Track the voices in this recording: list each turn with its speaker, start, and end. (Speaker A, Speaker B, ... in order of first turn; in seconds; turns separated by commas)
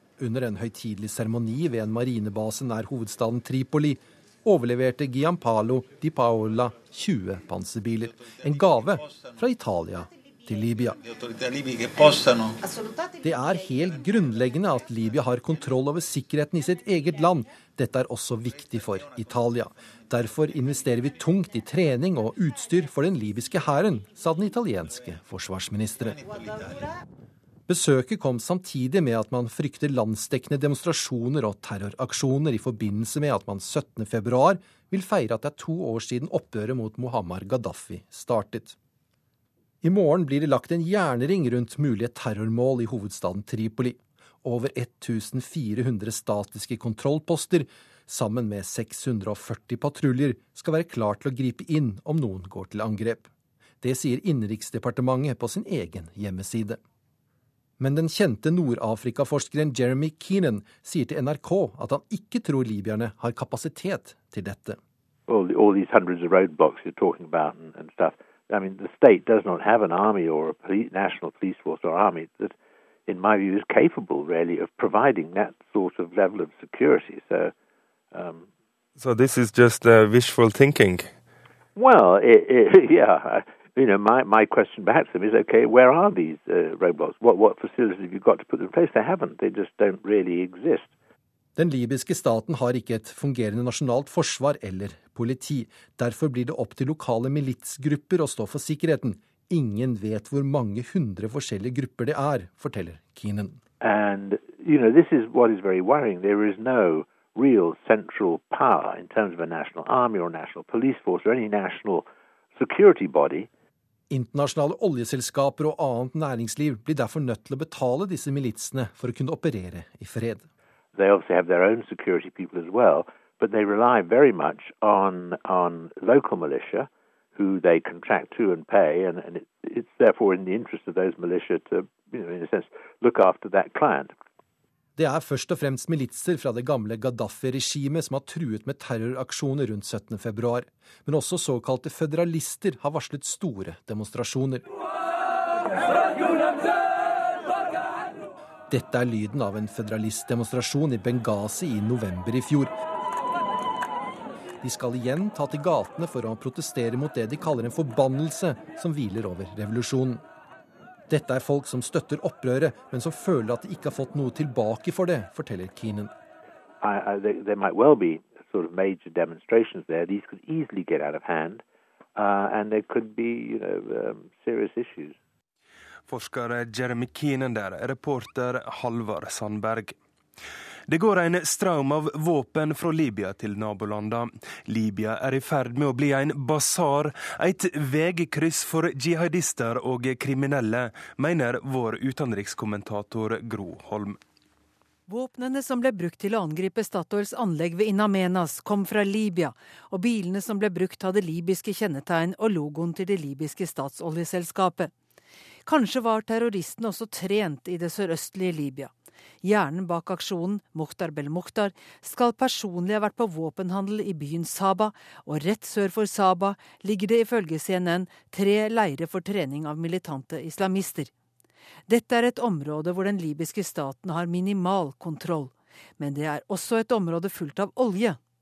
Speaker A: 0.2-11.0, Speaker A: 13.2-26.3, Speaker A: 27.7-38.8, Speaker A: 39.8-53.3, Speaker A: 53.8-56.8, Speaker A: 57.8-64.8, Speaker B: 65.3-72.5, Speaker B: 73.1-77.5, Speaker B: 78.1-78.5, Speaker C: 79.0-81.1, Speaker B: 81.8-90.9, Speaker A: 91.6-103.6, Speaker B: 103.8-113.5, Speaker A: 114.1-120.5, Speaker B: 121.0-134.1, Speaker A: 135.0-144.7, Speaker A: 148.7-152.7, Speaker A: 154.6-160.2, Speaker A: 161.1-166.1, Speaker B: 166.8-171.6, Speaker B: 172.2-175.2, Speaker C: 176.1-179.9, Speaker C: 180.9-194.2, Speaker D: 195.1-204.9, Speaker D: 205.7-208.9, Speaker D: 209.4-221.1, Speaker D: 221.9-228.2